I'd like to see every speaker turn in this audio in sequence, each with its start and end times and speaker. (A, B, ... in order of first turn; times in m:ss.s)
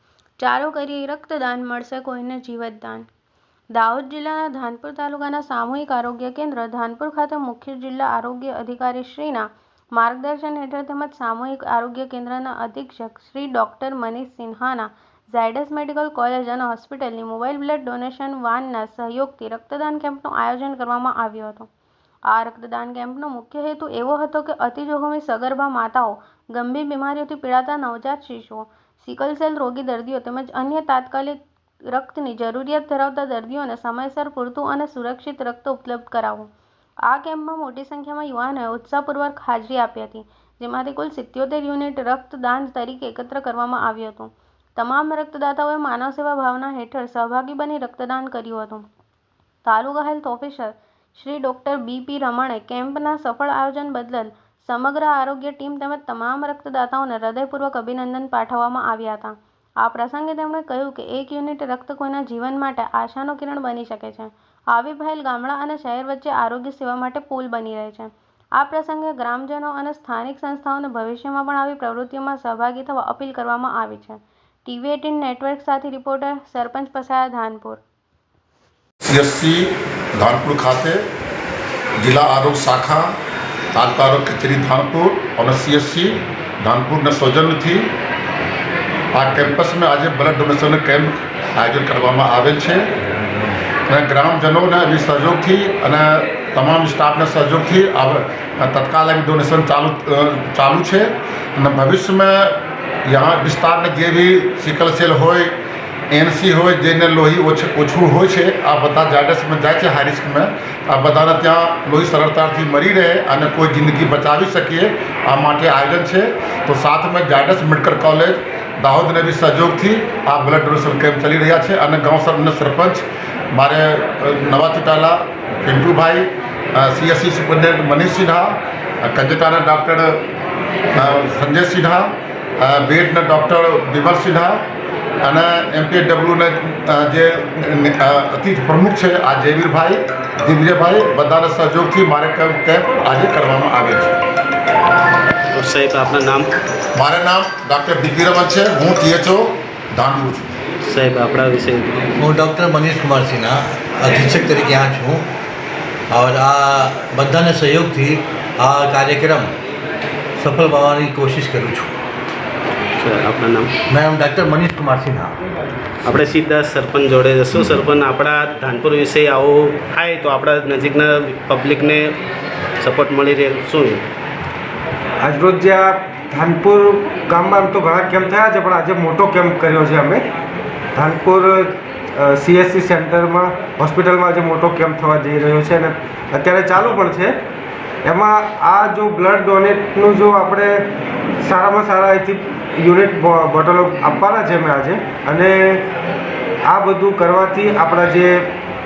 0:00.4-0:03.1 A
0:03.7-0:21.7 A
0:22.3-0:36.5 A
0:37.0-0:48.9 A
0:49.6-1:17.8 A
1:19.1-1:21.0 B
1:22.0-1:23.1 B
1:23.7-1:27.9 B
1:29.1-1:32.9 B
1:33.9-1:45.5 B
1:46.1-2:10.2 B
2:10.9-2:14.6 B
2:15.2-2:24.1 B
2:25.5-2:26.5 C
2:27.0-2:30.4 B
2:30.8-2:32.1 C
2:32.2-2:35.3 D
2:36.1-2:39.5 D
2:40.4-2:42.0 D
2:43.0-2:43.7 C
2:43.9-2:45.4 D
2:46.0-2:52.1 C
2:52.8-2:54.0 C
2:55.2-3:00.3 E
3:01.0-3:07.4 E
3:08.0-3:10.9 E
3:11.4-3:15.9 E
3:16.6-3:18.5 E